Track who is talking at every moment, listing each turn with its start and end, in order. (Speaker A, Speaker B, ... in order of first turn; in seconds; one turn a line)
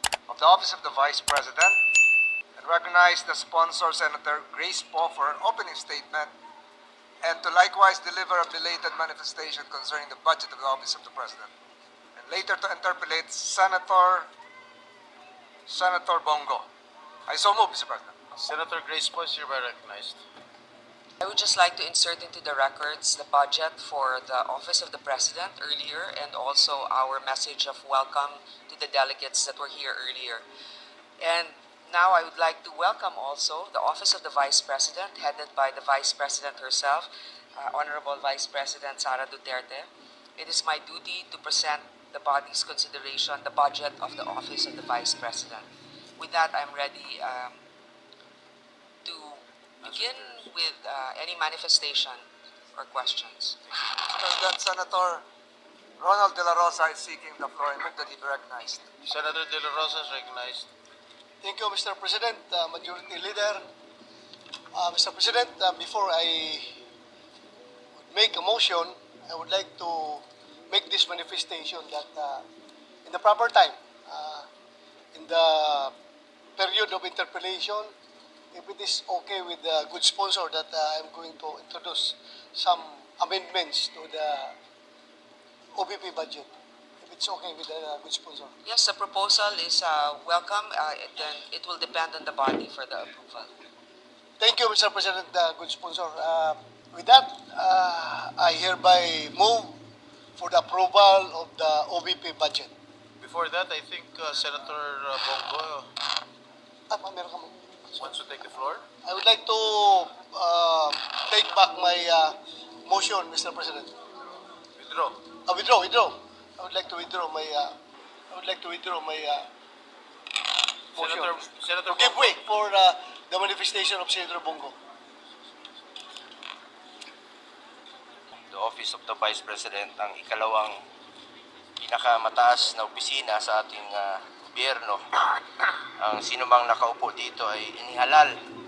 Speaker A: 0.3-1.8
Speaker A: 2.6-6.3
Speaker A: 7.2-11.5
Speaker A: 12.2-14.3
Speaker A: 15.7-16.6
Speaker A: 17.3-18.1
Speaker B: 18.4-20.2
Speaker C: 21.2-30.4
Speaker C: 31.2-45.7
Speaker C: 46.2-47.6
Speaker C: 49.0-52.2
Speaker B: 49.9-50.3
Speaker C: 52.8-53.6
Speaker A: 54.1-55.2
Speaker A: 56.0-58.9
Speaker B: 59.0-60.7
Speaker D: 61.4-63.6
Speaker D: 64.8-66.8
Speaker D: 68.1-72.4
Speaker D: 73.0-74.5
Speaker D: 75.1-75.9
Speaker D: 76.6-77.9
Speaker D: 78.5-84.5
Speaker D: 85.8-86.5
Speaker D: 87.0-88.5
Speaker C: 88.7-93.5
Speaker D: 94.4-99.8
Speaker D: 100.4-102.7
Speaker B: 103.2-105.9
Speaker D: 106.9-107.6
Speaker B: 108.0-108.9
Speaker D: 109.0-113.9
Speaker B: 114.8-115.2
Speaker D: 115.5-117.7
Speaker D: 118.3-119.5
Speaker D: 121.0-124.7
Speaker B: 121.0-122.4
Speaker E: 128.5-130.8
Speaker E: 131.8-135.0
Speaker E: 136.0-138.3